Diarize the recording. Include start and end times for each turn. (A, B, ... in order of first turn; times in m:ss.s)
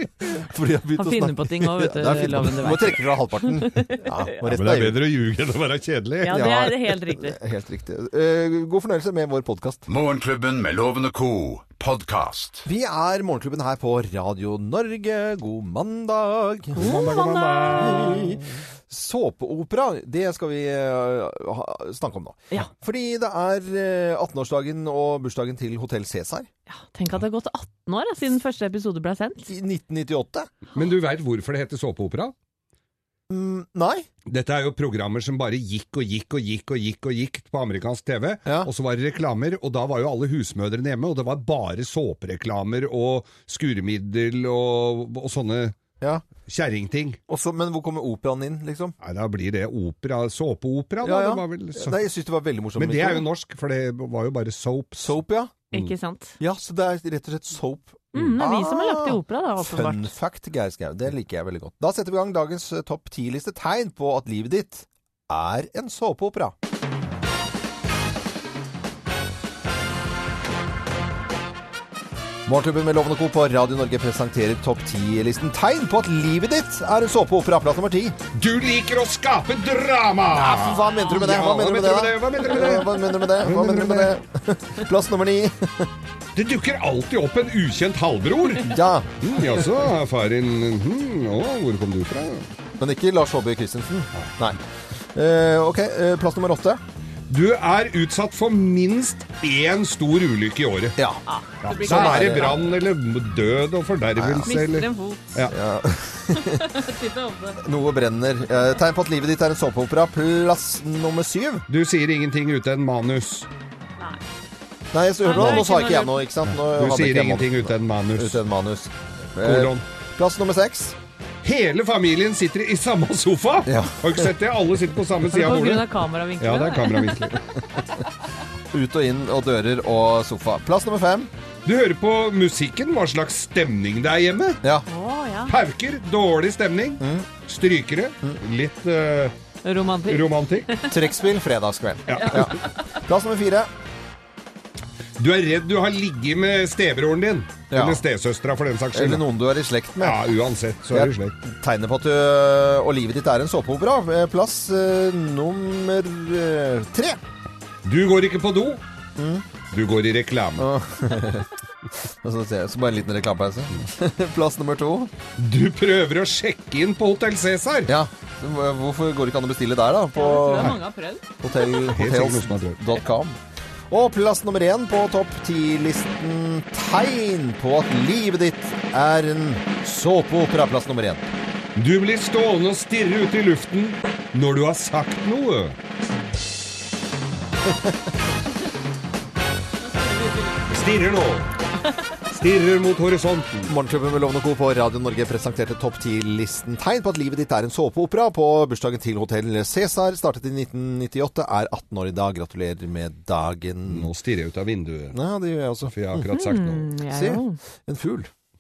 0:00.3-0:05.0 A
0:01.0-0:04.3 B
0:04.5-0:06.4 C
0:06.2-0:07.4 B
0:06.3-0:09.9 A
0:09.9-0:12.6 D
0:12.6-0:16.9 A
0:16.7-0:18.4 C
0:16.8-0:18.2 B
0:17.7-0:26.5 A
0:26.7-0:29.5 B
0:29.5-0:30.5 A
0:30.7-0:32.3 C
0:33.3-0:34.1 A
0:34.3-0:45.8 C
0:38.4-0:38.7 A
0:46.0-0:46.3 A
0:46.4-0:47.2 C
0:47.3-0:49.0 A
0:49.0-0:52.0 C
0:51.0-0:53.3 A
0:52.8-0:55.1 C
0:55.0-0:55.6 A
0:55.7-0:56.4 B
0:56.4-1:06.5 A
0:58.2-1:00.1 B
1:12.5-1:18.2 A
1:18.4-1:24.1 C
1:20.3-1:25.9 A
1:26.4-1:28.7 C
1:28.6-1:29.2 A
1:29.2-1:32.5 C
1:32.8-1:34.6 A
1:35.2-1:36.8 A
1:37.3-1:41.0 C
1:41.3-1:42.6 B
1:41.6-1:45.6 C
1:41.8-1:42.6 A
1:44.2-1:44.5 A
1:44.4-1:45.5 B
1:45.5-1:46.7 A
1:46.3-1:47.6 B
1:47.6-1:51.7 A
1:51.7-1:53.5 C
1:54.9-2:01.0 A
1:55.2-1:56.2 B
1:55.4-1:55.6 C
1:56.5-1:58.4 C
1:59.4-1:59.8 C
2:01.4-2:07.4 C
2:03.7-2:04.3 A
2:05.3-2:07.4 B
2:08.7-2:11.3 A
2:11.6-2:14.6 C
2:14.9-2:15.6 B
2:15.5-2:19.3 C
2:17.0-2:17.3 A
2:19.6-2:20.9 B
2:20.1-2:20.8 C
2:20.9-2:23.7 A
2:22.1-2:22.5 C
2:22.2-2:22.5 B
2:25.2-2:29.2 C
2:27.7-2:28.0 A
2:28.9-2:30.2 A
2:30.0-2:31.4 C
2:30.9-2:37.2 A
2:37.8-2:38.8 C
2:39.2-2:39.5 A
2:39.7-2:40.7 C
2:40.6-2:41.5 A
2:42.2-2:45.1 A
2:45.4-2:47.9 C
2:47.9-2:50.8 A
2:50.1-2:51.2 B
2:51.4-2:53.4 A
2:51.8-2:52.8 C
2:53.9-3:01.3 A
3:01.8-3:05.8 C
3:10.7-3:11.5 C
3:12.3-3:13.7 C
3:13.7-3:24.1 A
3:23.9-3:25.2 C
3:25.1-3:26.3 A
3:25.9-3:26.9 C
3:26.3-3:27.6 B
3:27.1-3:28.3 A